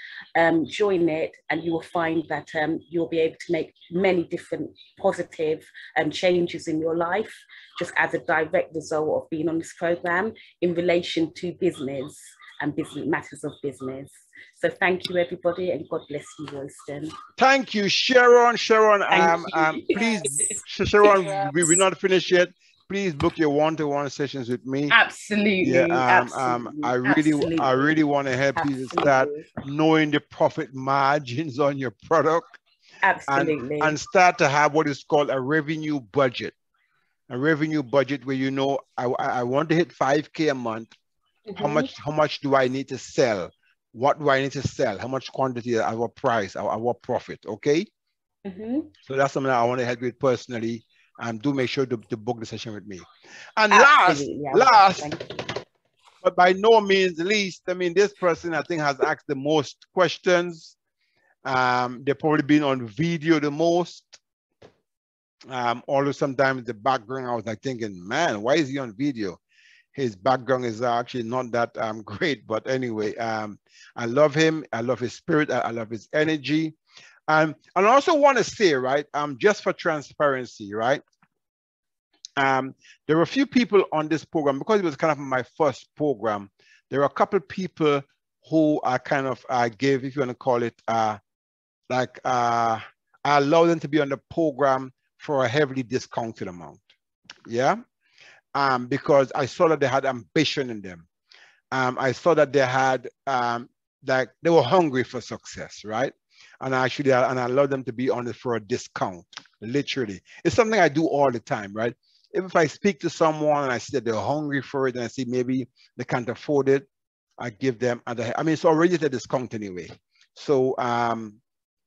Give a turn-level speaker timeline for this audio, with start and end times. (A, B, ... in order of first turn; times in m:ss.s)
0:00.4-0:17.1 A
0:17.4-0:25.0 B
0:19.1-0:21.7 A
0:24.9-0:28.0 A
0:25.6-0:32.6 B
0:28.6-0:29.5 A
0:33.0-0:34.0 A
0:33.3-0:36.5 B
0:37.3-0:40.9 B
0:41.5-0:41.9 A
0:41.6-0:47.9 B
0:48.4-0:48.9 A
0:49.0-0:53.1 B
0:53.6-0:55.1 B
0:53.7-0:55.3 A
0:56.2-1:00.8 B
1:01.4-1:04.2 B
1:05.5-1:09.4 B
1:09.9-1:16.8 B
1:17.3-1:21.0 B
1:22.4-1:31.2 B
1:31.9-1:36.8 B
1:37.5-1:37.8 B
1:38.5-1:41.1 B
1:41.7-1:56.9 B
1:57.4-2:01.4 B